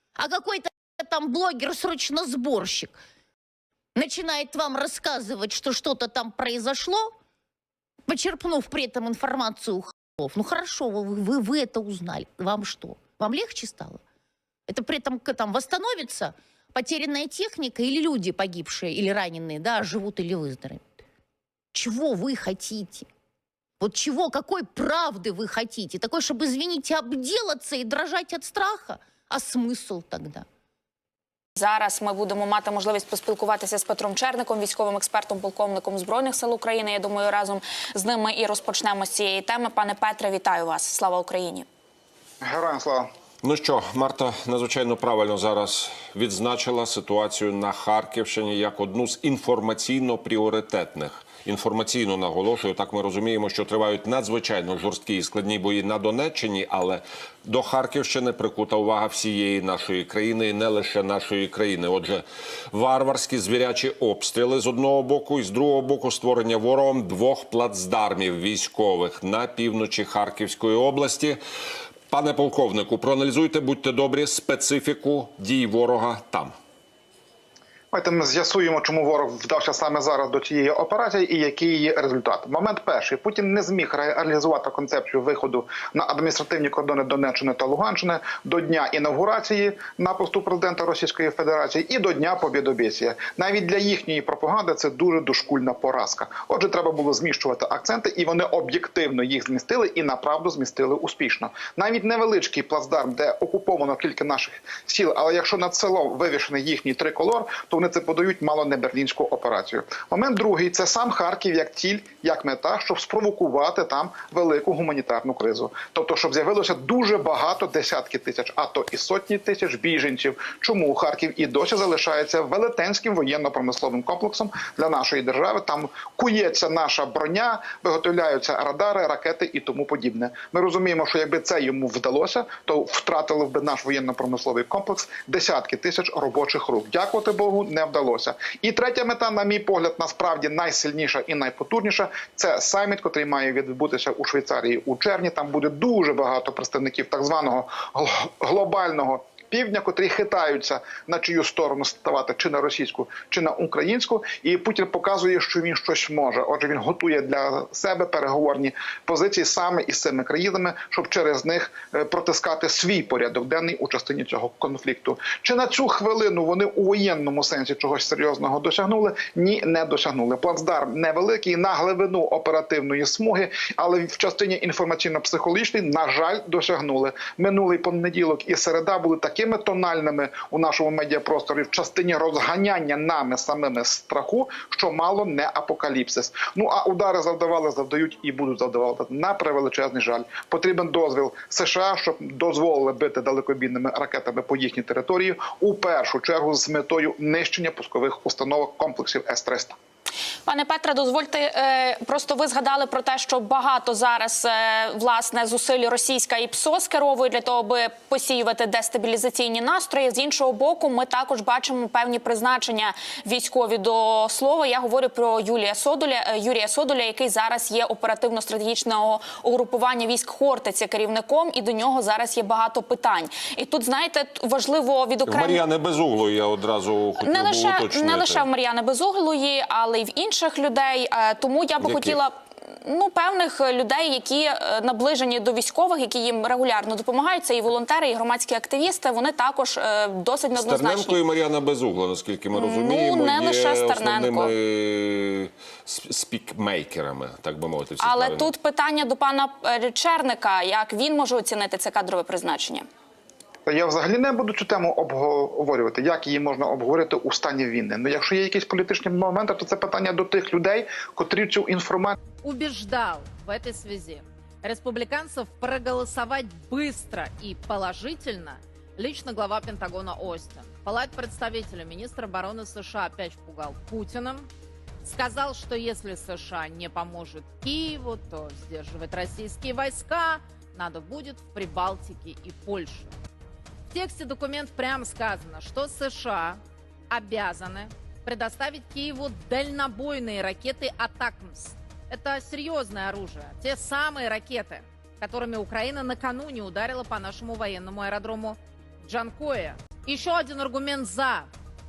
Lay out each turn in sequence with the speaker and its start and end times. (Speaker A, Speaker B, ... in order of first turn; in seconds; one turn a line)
Speaker A: 0.2-3.0
Speaker A: 4.0-7.1
Speaker A: 8.1-14.0
Speaker A: 14.7-21.0
Speaker A: 21.7-23.1
Speaker A: 23.8-30.5
Speaker B: 31.6-41.7
Speaker C: 42.4-43.1
Speaker D: 43.4-71.4
Speaker D: 72.1-76.5
Speaker C: 77.9-199.8
Speaker B: 200.4-225.6
Speaker D: 225.2-228.5
Speaker B: 227.2-241.2
Speaker D: 231.8-232.2
Speaker D: 240.5-248.5
Speaker B: 242.5-244.5
Speaker B: 248.0-252.9
Speaker C: 253.7-262.2
Speaker E: 262.4-274.5
Speaker E: 275.0-283.1
Speaker E: 283.9-301.5